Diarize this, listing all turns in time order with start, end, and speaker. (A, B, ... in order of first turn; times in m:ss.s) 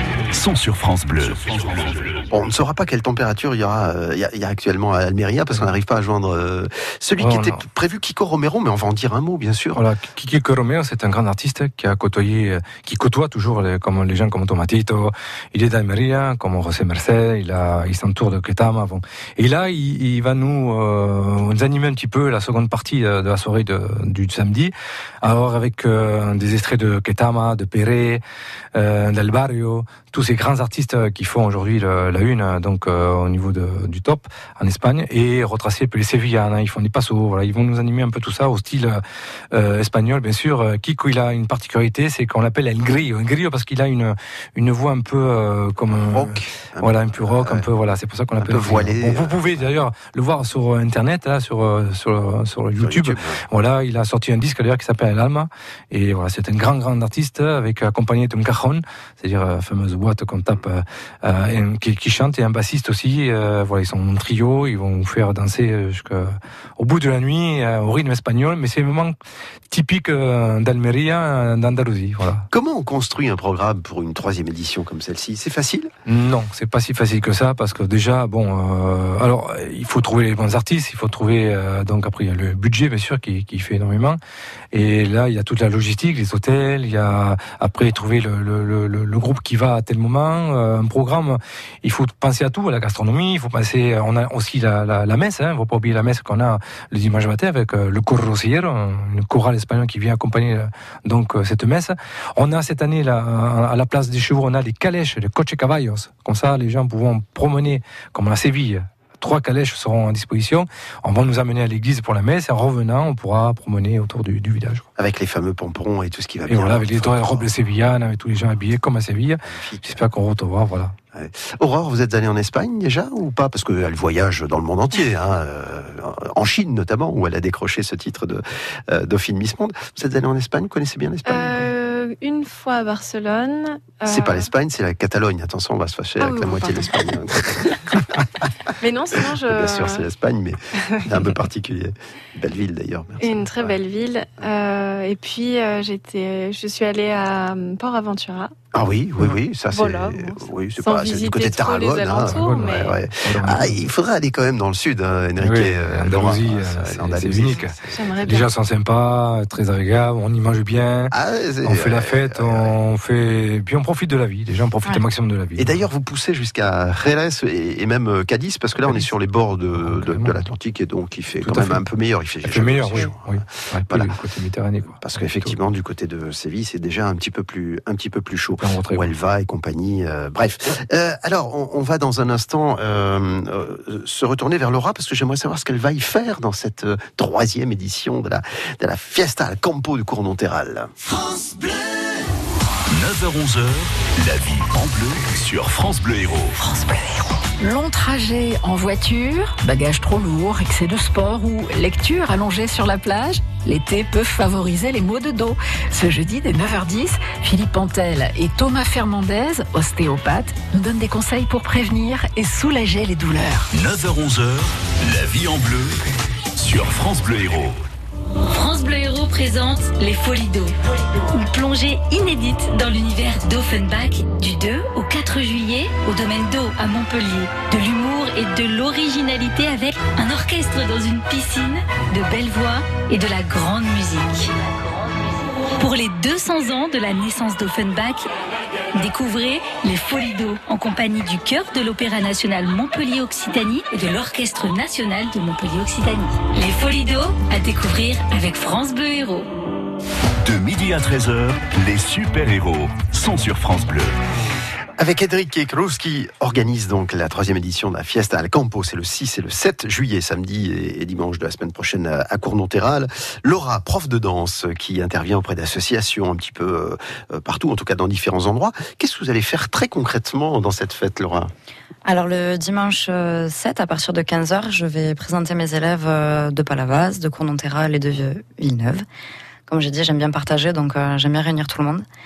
0:00.3-0:02.3 A
0:02.3-0:09.8 B
0:07.2-0:07.6 C
0:09.7-0:28.2 C
0:28.7-1:09.1 C
0:45.9-0:47.6 B
0:48.4-0:49.6 B
0:52.8-0:53.4 B
1:09.7-1:12.5 C
1:12.5-1:15.9 B
1:16.0-1:24.2 C
1:24.7-1:54.8 C
1:55.0-1:57.5 B
1:56.5-2:00.9 C
1:59.4-2:00.0 B
2:01.1-2:11.7 B
2:11.2-2:14.5 D
2:14.0-2:18.1 B
2:16.2-2:17.1 D
2:18.8-2:20.1 D
2:19.5-2:23.8 B
2:23.2-2:28.5 D
2:28.7-2:38.0 B
2:29.7-2:33.0 D
2:32.2-2:33.8 C
2:35.4-2:41.1 C
2:37.9-2:38.5 D
2:41.1-2:42.7 B
2:41.6-2:45.8 C
2:45.6-2:53.2 B
2:48.8-2:49.1 C
2:49.8-2:50.5 C
2:51.4-2:51.8 C
2:52.4-2:55.6 C
2:55.0-3:10.9 B
2:58.6-2:59.1 C
3:12.9-3:16.5 A
3:16.6-3:33.7 E
3:33.7-3:36.0 A
3:36.6-3:37.8 A
3:38.5-3:40.7 F
3:41.3-3:54.5 F
3:55.7-3:58.3 F
3:58.9-4:09.5 F
4:10.4-4:14.2 A
4:15.0-4:31.5 B
4:32.0-4:39.0 G
4:39.7-4:42.0 G